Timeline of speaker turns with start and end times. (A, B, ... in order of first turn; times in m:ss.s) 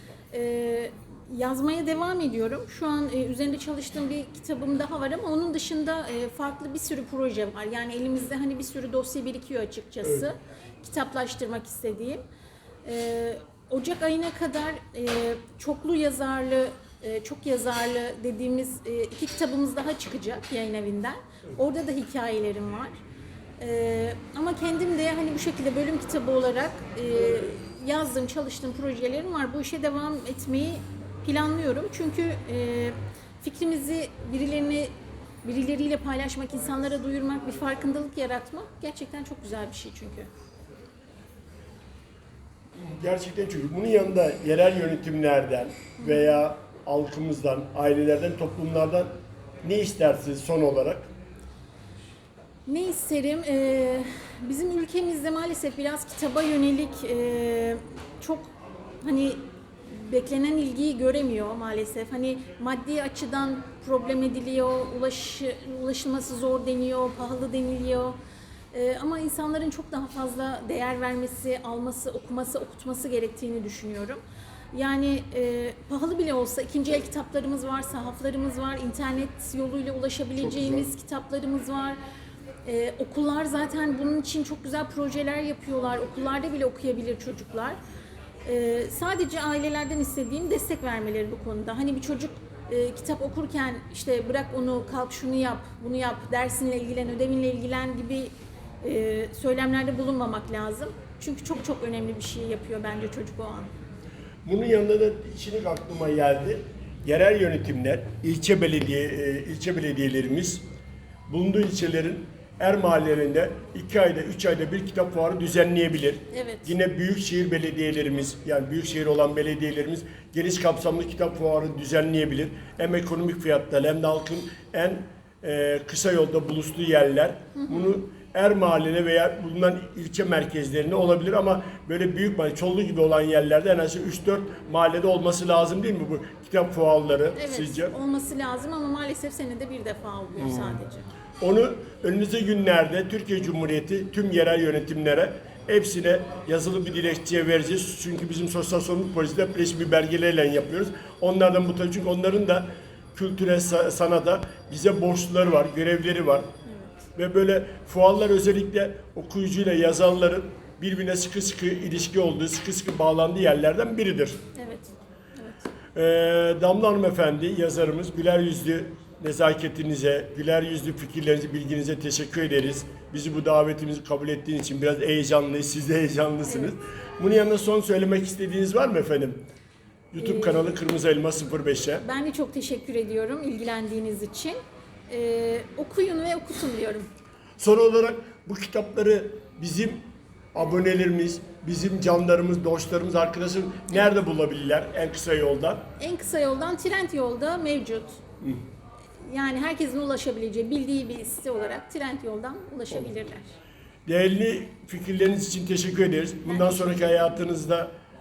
0:00.3-0:12.2 A
0:12.8-0:23.0 A
0:23.6-0:34.9 A
0:35.4-0:40.3 A
0:42.8-0:49.1 B
0:46.0-0:46.3 A
0:49.6-0:51.1 B
0:52.6-1:08.2 A
1:08.7-1:14.2 A
1:14.7-1:22.0 A
1:22.6-1:27.8 A
1:28.4-1:38.3 A
1:38.8-1:43.7 A
1:44.4-1:50.6 B
1:51.3-2:17.9 B
1:56.3-1:56.7 A
2:07.6-2:08.0 A
2:17.4-2:21.1 A
2:20.4-2:20.8 B
2:21.4-2:36.5 B
2:36.7-2:37.0 A
2:37.1-2:44.4 B
2:44.6-2:45.7 A
2:45.9-2:59.4 B
3:00.1-3:02.0 B
3:00.2-3:00.7 A
3:02.0-3:04.6 A
3:05.1-3:07.1 A
3:07.6-3:10.0 B
3:10.5-3:15.9 B
3:16.0-3:18.2 A
3:19.2-3:23.5 A
3:24.0-3:27.9 B
3:26.5-3:27.4 A